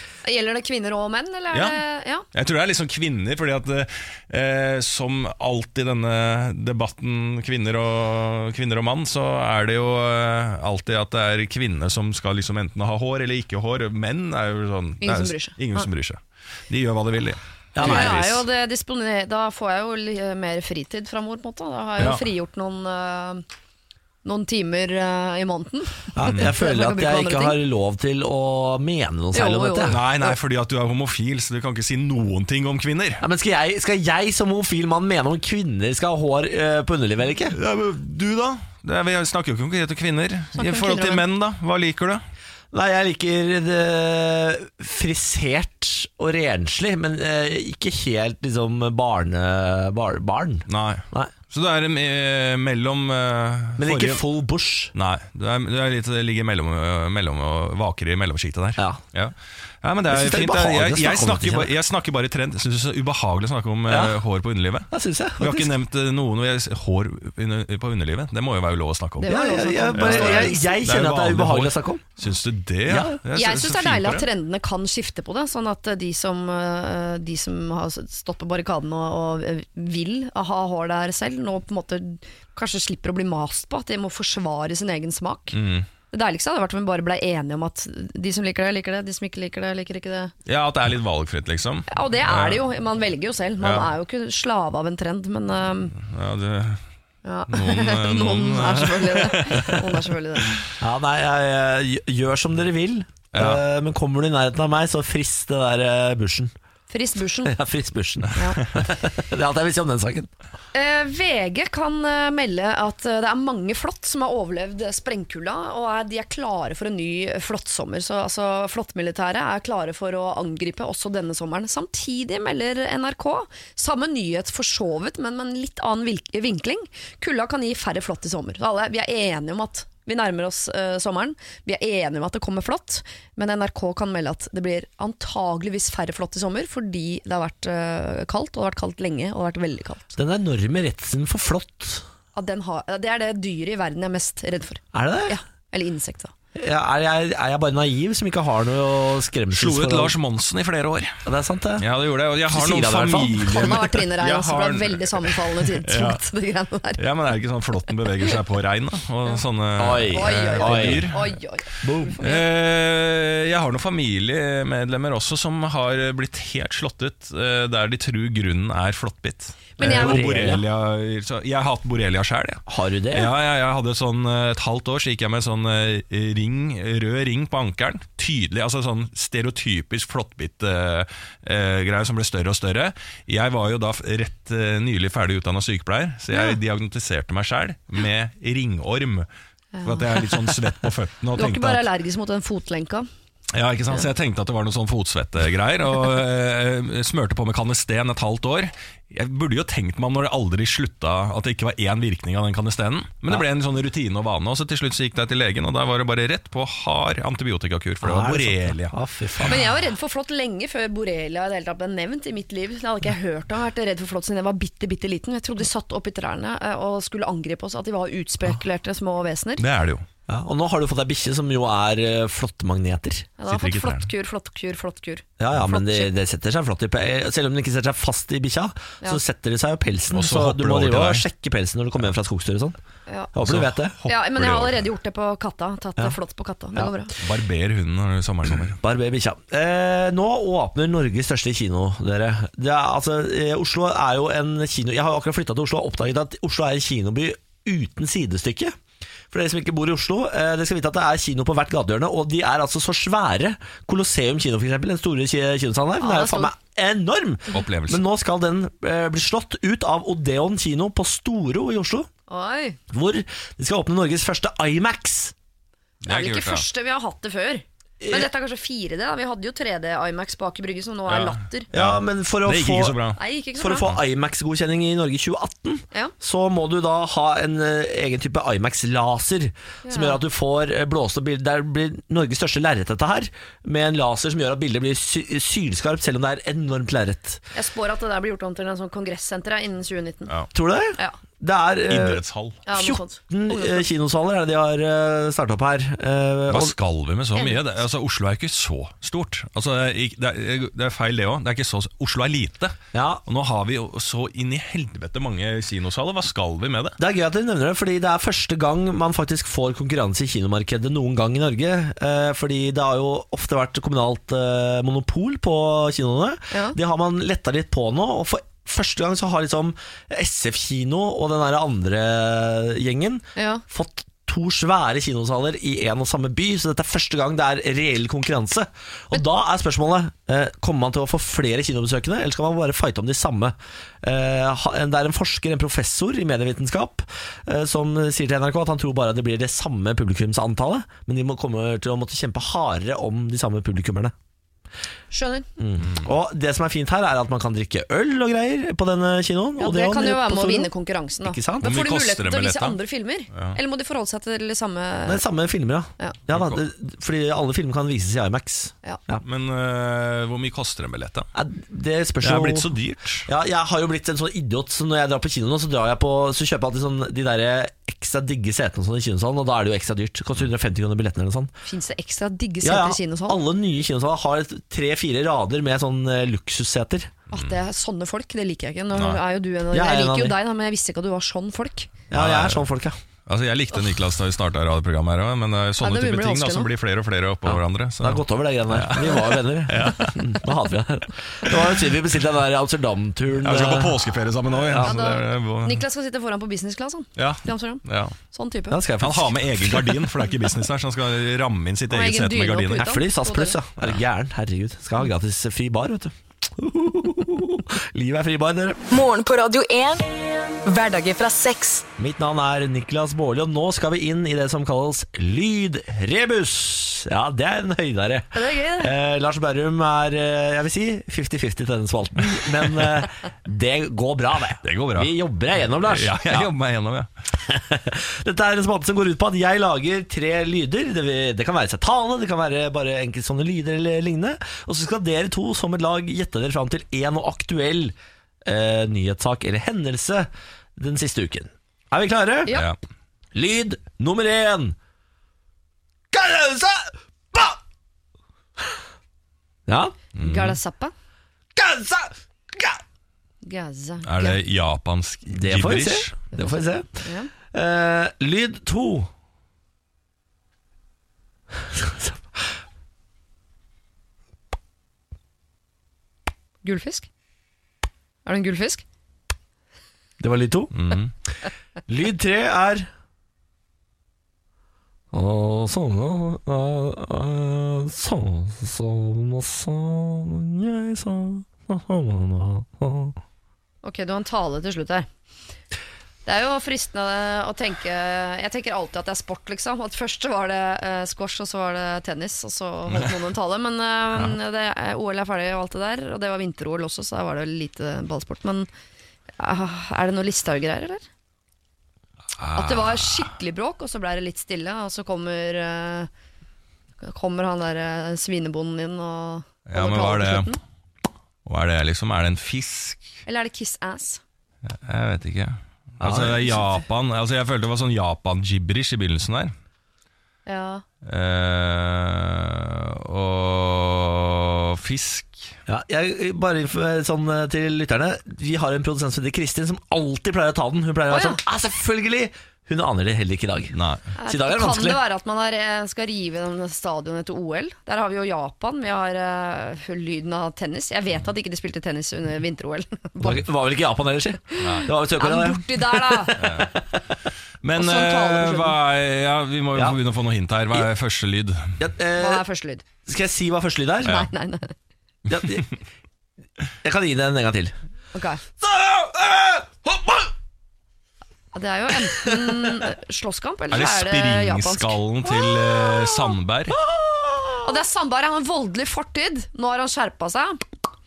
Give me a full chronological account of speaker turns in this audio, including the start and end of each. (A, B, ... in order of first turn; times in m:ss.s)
0:00.2-0:02.2 A
0:01.5-0:01.8 B
0:02.3-0:18.4 B
0:15.0-0:15.9 A
0:17.8-0:18.2 C
0:17.8-0:23.4 A
0:24.2-0:27.6 A
0:26.2-0:30.0 C
0:29.3-0:30.4 A
0:29.9-0:33.2 B
0:33.2-0:37.6 C
0:37.5-0:42.2 B
0:40.6-0:41.2 A
0:42.7-0:51.3 C
0:50.7-0:54.2 B
0:53.8-0:54.9 C
0:54.9-1:09.4 B
1:00.1-1:01.7 C
1:03.9-1:04.2 C
1:04.9-1:05.7 C
1:09.2-1:10.8 A
1:09.2-1:12.1 C
1:10.0-1:14.3 B
1:12.9-1:13.2 C
1:13.3-1:25.6 A
1:25.5-1:25.9 B
1:26.1-1:30.3 A
1:30.5-1:32.6 B
1:31.9-1:36.0 A
1:33.6-1:33.9 B
1:36.0-1:36.8 B
1:37.2-1:40.6 A
1:37.5-1:39.8 B
1:40.8-1:46.5 C
1:43.3-1:43.6 B
1:46.9-1:47.5 A
1:47.4-1:50.3 C
1:48.4-1:48.6 A
1:50.7-2:20.2 A
2:20.2-2:22.0 C
2:22.4-2:26.3 A
2:24.9-2:25.4 C
2:26.6-2:30.2 C
2:29.5-2:31.2 B
2:31.2-2:31.9 C
2:31.8-2:36.2 B
2:32.5-2:33.6 C
2:33.4-2:37.0 A
2:37.0-2:41.3 B
2:39.8-2:41.1 C
2:40.0-2:42.4 A
2:41.8-2:42.2 C
2:42.2-2:52.6 B
2:49.8-2:50.6 A
2:49.8-2:50.6 C
2:52.7-2:53.3 C
2:53.1-3:09.3 B
3:06.3-3:06.6 A
3:09.8-3:10.5 A
3:09.8-3:11.8 B
3:11.4-3:13.1 A
3:13.5-3:29.6 B
3:28.0-3:29.6 C
3:29.5-3:39.6 A
3:39.6-3:40.0 B
3:40.3-3:43.3 C
3:43.4-3:46.1 A
3:43.5-3:44.1 B
3:45.4-3:52.8 C
3:50.1-3:51.2 B
3:53.3-3:54.0 C
3:53.4-3:54.8 B
3:54.1-3:57.1 A
3:57.2-3:58.8 B
3:58.5-4:08.8 C
4:09.3-4:22.1 C
4:16.0-4:16.5 A
4:17.5-4:18.0 B
4:22.3-4:22.8 A
4:22.9-4:25.3 C
4:26.0-4:26.6 B
4:26.1-4:31.7 A
4:28.0-4:28.3 C
4:31.1-4:33.2 B
4:31.7-4:33.0 C
4:33.2-4:33.9 A
4:33.6-4:47.4 C
4:39.8-4:40.2 A
4:47.5-4:50.3 A
4:50.5-4:52.2 C
4:51.9-4:52.6 B
4:52.7-4:53.9 A
4:52.7-4:56.8 C
4:56.5-5:07.0 B
4:57.4-4:57.6 A
5:02.9-5:03.2 C
5:07.0-5:44.1 C
5:16.5-5:16.8 A
5:23.4-5:23.6 A
5:45.1-5:45.5 A
5:45.6-5:50.7 C
5:49.6-5:55.2 A
5:51.2-5:51.8 C
5:51.6-5:52.8 B
5:53.3-5:53.6 B
5:55.1-5:59.2 C
5:56.3-5:56.6 B
5:59.2-6:01.3 B
6:01.4-6:02.7 C
6:02.2-6:03.3 B
6:03.3-6:11.5 C
6:11.7-6:13.4 A
6:12.6-6:17.1 C
6:17.3-6:21.9 A
6:19.0-6:19.2 B
6:19.7-6:20.4 C
6:22.1-6:23.0 C
6:22.1-6:22.7 B
6:23.3-6:30.4 B
6:25.8-6:26.7 A
6:27.5-6:34.0 C
6:33.4-6:35.8 B
6:34.6-6:35.0 C
6:34.8-6:38.8 A
6:37.2-6:38.1 B
6:38.7-6:40.1 C
6:39.0-6:43.0 B
6:41.9-6:43.6 A
6:42.8-6:48.8 C
6:48.9-6:50.1 D
6:50.6-6:51.9 D
6:52.0-7:06.5 C
6:58.3-6:58.9 A
7:04.6-7:05.1 B
7:05.8-7:07.1 B
7:07.4-7:18.0 C
7:18.5-7:22.6 C
7:22.5-7:22.8 B
7:23.3-7:24.8 C
7:26.1-7:27.6 C
7:29.7-7:30.0 C
7:30.2-7:30.9 A
7:30.2-7:30.6 B
7:31.6-7:32.8 C
7:33.4-7:34.4 A
7:34.0-7:36.2 B
7:35.3-7:39.1 C
7:36.3-7:37.3 A
7:41.5-7:42.5 C
7:46.6-7:47.1 A
7:48.2-7:48.8 A
7:50.2-7:51.0 C
7:50.8-7:51.1 B
7:51.9-7:52.9 C
7:55.1-8:03.2 C
8:03.8-8:05.1 A
8:06.3-8:18.7 A
8:19.4-8:21.0 A
8:22.4-8:23.3 B
8:22.5-8:26.1 A
8:27.0-8:30.6 A
8:29.7-8:30.6 B
8:31.5-8:33.2 B
8:33.2-8:34.2 A
8:34.7-8:39.5 B
8:36.0-8:36.6 C
8:40.5-8:40.8 A
8:41.0-8:45.6 B
8:45.7-8:55.0 C
8:51.1-8:51.4 A
8:53.7-8:54.1 B
8:54.2-9:03.5 A
9:03.2-9:07.0 C
9:04.6-9:04.9 B
9:04.7-9:06.5 A
9:06.4-9:06.7 B
9:07.6-9:11.8 B
9:07.8-9:08.8 A
9:11.8-9:12.4 C
9:12.2-9:12.8 A
9:13.1-9:14.3 C
9:14.0-9:14.7 A
9:15.3-9:15.8 C
9:16.8-9:17.7 C
9:18.1-9:18.4 A
9:18.6-9:20.3 C
9:21.6-9:25.0 A
9:22.1-9:22.5 C
9:23.7-9:26.8 B
9:26.7-9:27.8 C
9:27.6-9:30.6 A